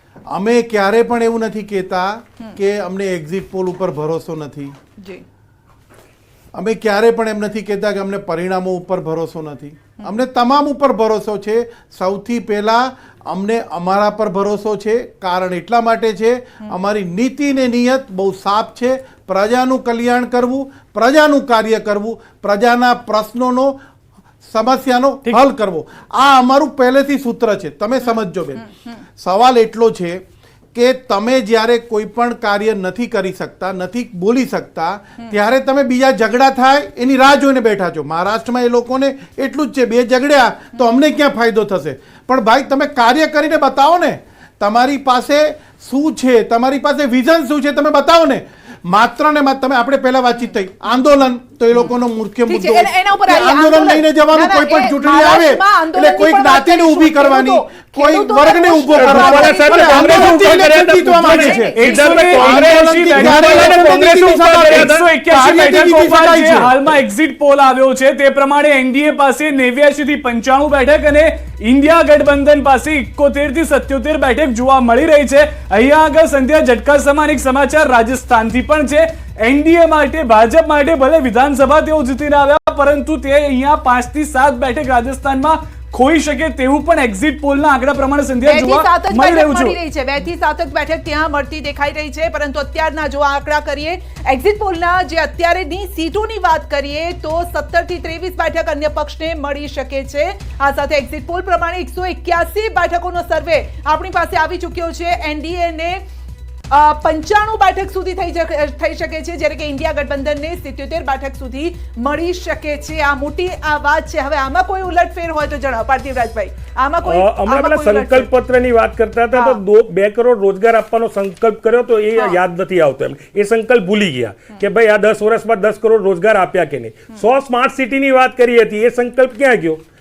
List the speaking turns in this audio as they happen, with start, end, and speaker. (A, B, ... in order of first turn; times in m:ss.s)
0:00.3-0:04.8 A
0:05.0-0:05.2 B
0:06.5-0:23.8 A
0:24.4-0:28.7 A
0:28.0-0:28.9 B
0:29.2-0:30.2 A
0:30.7-1:06.8 A
0:52.5-1:00.5 B
0:58.9-1:05.1 C
1:01.3-1:02.0 B
1:01.8-1:29.8 D
1:28.4-1:46.0 B
1:46.7-1:58.3 B
1:57.0-2:09.8 C
1:59.3-1:59.6 B